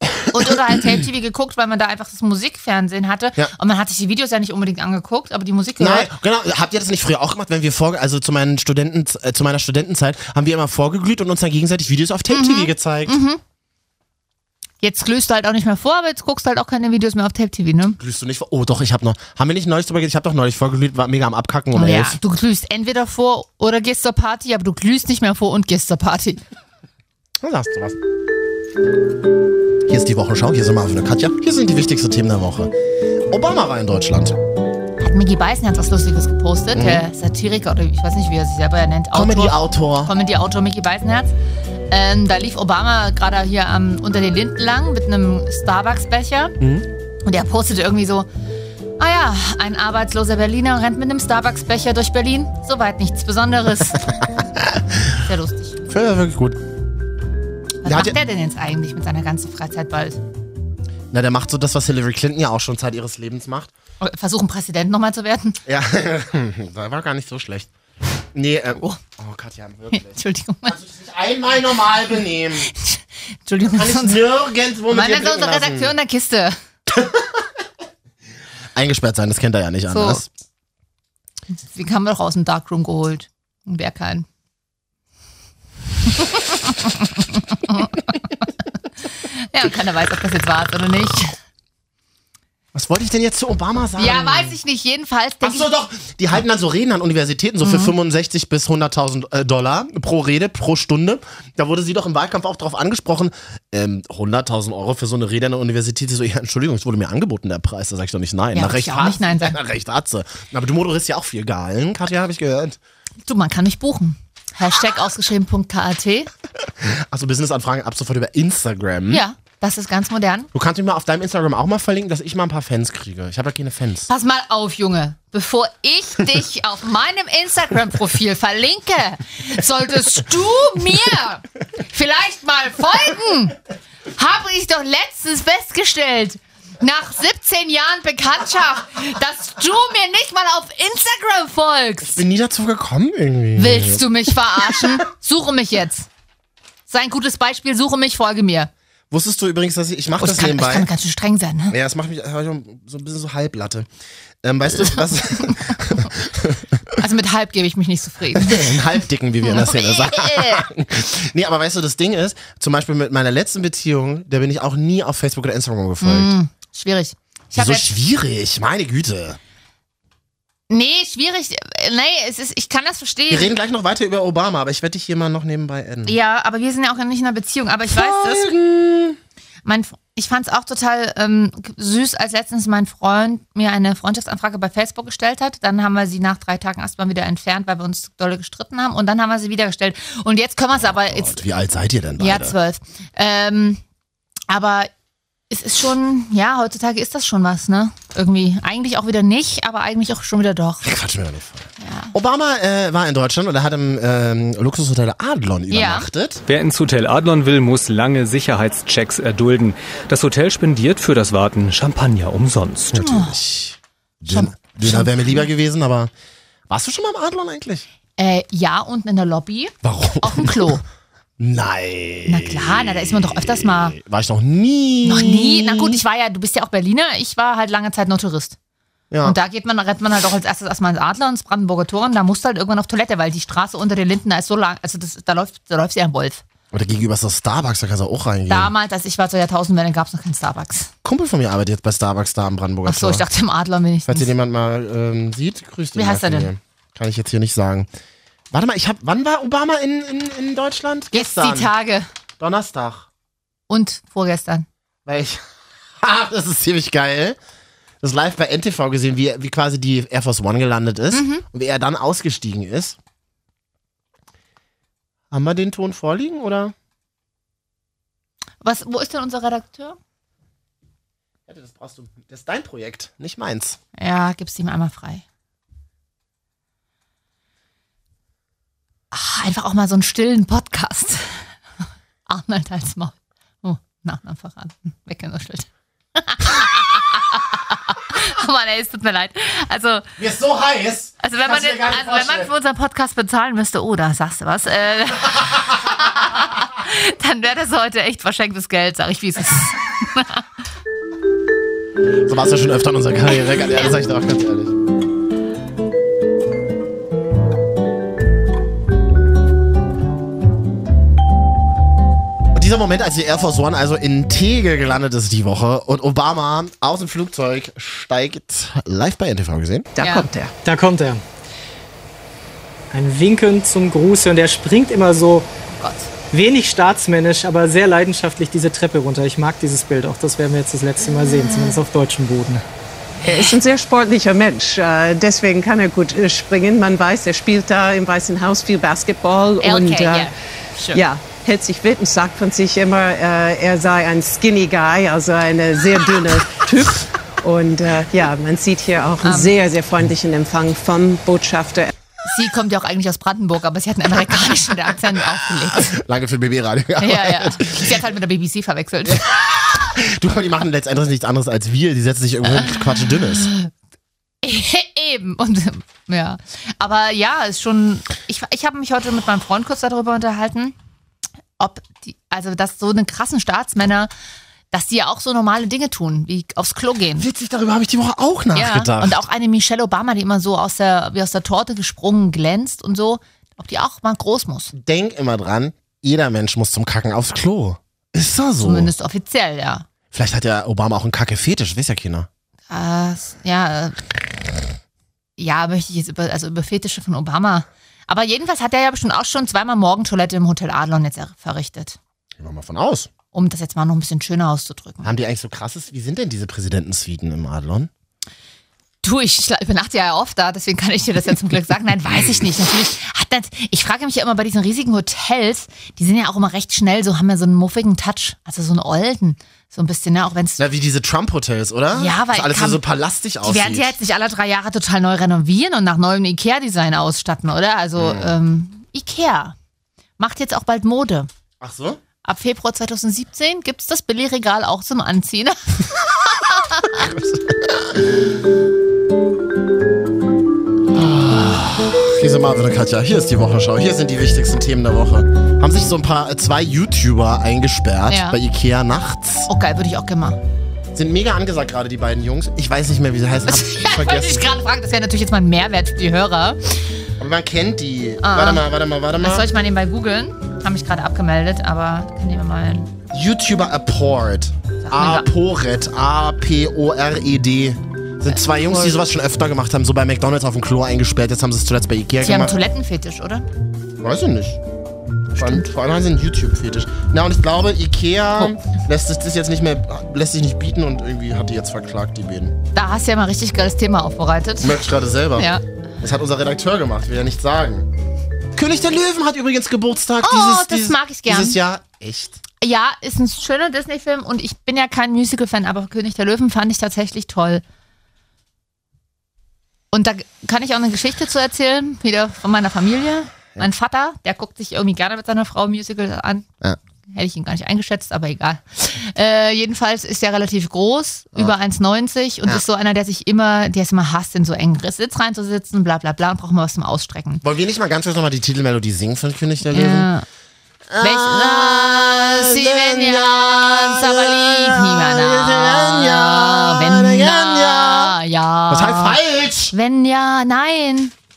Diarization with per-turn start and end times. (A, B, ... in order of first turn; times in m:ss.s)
0:00.3-0:06.1 A
0:05.8-0:13.2 B
0:12.3-0:13.4 A
0:14.8-0:18.0 A
0:18.0-0:22.2 B
0:21.7-0:26.4 A
0:27.4-0:28.0 B
0:29.9-0:32.7 B
0:33.3-0:34.4 B
0:35.0-0:41.3 A
0:36.7-0:37.1 B
0:39.1-0:40.1 B
0:41.9-0:46.6 A
0:46.6-0:46.9 B
0:47.2-0:48.3 A
0:49.0-0:54.2 A
0:54.6-0:55.1 B
0:55.2-0:55.8 A
0:55.9-0:56.6 B
0:57.8-1:00.2 A
0:57.8-0:58.2 B
1:01.1-1:03.7 B
1:04.0-1:05.6 A
1:05.7-1:07.7 B
1:08.3-1:12.7 B
1:09.9-1:10.8 A
1:12.7-1:14.2 A
1:13.7-1:16.0 B
1:14.9-1:16.6 A
1:16.9-1:17.4 B
1:18.8-1:20.3 B
1:19.9-1:20.2 A
1:21.6-1:24.3 A
1:26.2-1:28.2 A
1:29.2-1:31.4 A
1:32.7-1:34.6 B
1:34.0-1:35.7 A
1:35.4-1:52.8 B
1:37.6-1:37.9 A
1:48.5-1:49.6 A
1:53.2-1:56.3 A
1:56.8-1:59.2 B
1:59.1-2:00.5 A
2:00.5-2:04.1 B
2:04.1-2:13.6 A
2:14.2-2:22.2 A
2:22.0-2:24.9 B
2:23.6-2:26.1 A
2:26.9-2:28.7 A
2:29.1-2:30.9 B
2:30.2-2:31.8 A
2:31.7-2:33.9 B
2:34.4-2:37.0 B
2:37.0-2:38.8 A
2:38.3-2:46.3 B
2:39.4-2:40.7 A
2:46.0-2:47.9 A
2:47.5-2:49.4 B
2:50.7-2:53.5 A
2:53.3-2:56.2 B
2:56.1-2:58.5 A
2:57.9-2:59.2 B
2:59.6-3:11.4 A
3:10.8-3:12.6 B
3:12.2-3:13.8 A
3:14.5-3:14.9 A
3:15.5-3:20.9 A
3:20.8-3:26.4 B
3:21.8-3:22.1 A
3:25.7-3:26.1 A
3:26.5-3:33.1 C
3:32.9-3:36.1 B
3:33.0-3:33.4 A
3:34.3-3:35.5 A
3:36.7-3:37.9 B
3:38.2-3:40.8 A
3:39.8-3:40.8 B
3:41.4-3:46.0 B
3:42.3-3:44.0 A
3:45.0-3:48.6 A
3:49.1-3:49.4 B
3:49.2-3:56.4 A
3:56.7-3:58.7 B
3:58.5-4:00.9 A
4:01.0-4:03.2 B
4:02.8-4:04.3 A
4:04.1-4:07.9 B
4:06.0-4:06.5 A
4:08.5-4:11.7 B
4:11.1-4:12.1 A
4:12.4-4:13.1 B
4:13.7-4:14.7 A
4:15.1-4:15.4 B
4:16.0-4:17.4 B
4:18.0-4:23.0 B
4:21.1-4:21.4 A
4:25.3-4:26.7 B
4:28.6-4:30.0 A
4:31.5-4:33.8 B
4:34.0-4:35.2 A
4:39.1-4:41.4 A
4:42.3-4:50.1 A
4:50.2-4:52.5 B
4:51.2-5:00.4 A
5:02.2-5:04.8 B
5:12.5-5:19.9 B
5:20.0-5:20.5 D
5:20.0-5:20.3 A
5:20.6-5:21.2 E
5:22.9-5:25.5 E
5:25.7-5:26.1 A
5:26.3-5:32.6 E
5:31.4-5:31.7 A
5:33.2-5:40.3 D
5:39.6-5:41.0 A
5:40.9-5:51.9 D
5:49.2-5:49.5 A
5:52.2-5:55.9 A
5:55.7-5:58.0 B
5:57.0-5:59.2 A
5:59.1-6:03.5 B
6:02.6-6:03.7 A
6:04.4-6:10.8 A
6:11.6-6:14.1 A
6:14.7-6:17.3 A
6:17.2-6:19.2 B
6:18.5-6:24.7 A
6:24.7-6:28.9 B
6:28.6-6:29.9 A
6:30.1-6:32.3 B
6:32.7-6:34.0 A
6:35.4-6:42.0 A
6:42.4-6:43.1 B
6:43.3-6:45.1 A
6:45.0-6:47.9 B
6:49.0-7:00.6 A
7:00.6-7:03.9 B
7:01.9-7:02.8 A
7:03.4-7:09.6 A
7:08.0-7:08.3 B
7:10.2-7:11.3 A
7:11.6-7:12.0 B
7:12.2-7:17.0 A
7:16.9-7:18.1 B
7:20.9-7:29.5 B
7:28.1-7:28.4 A
7:29.5-7:30.4 A
7:30.9-7:34.5 B
7:33.5-7:36.6 A
7:37.2-7:39.5 B
7:38.2-7:38.7 A
7:39.2-7:42.9 A
7:43.1-7:52.6 B
7:44.8-7:45.3 A
7:48.3-7:49.0 A
7:52.2-7:53.5 A
7:54.0-7:54.6 B
7:55.3-8:02.6 B
7:55.4-7:55.6 A
8:02.7-8:04.8 A
8:04.6-8:07.9 B
8:05.4-8:05.6 A
8:08.6-8:12.4 B
8:10.2-8:11.6 A
8:12.6-8:17.6 A
8:19.9-8:26.5 A
8:27.1-8:37.4 A
8:37.4-8:40.1 B
8:39.7-8:40.2 A
8:40.9-8:48.2 B
8:41.0-8:49.2 A
8:48.7-8:49.7 B
8:49.7-8:51.1 A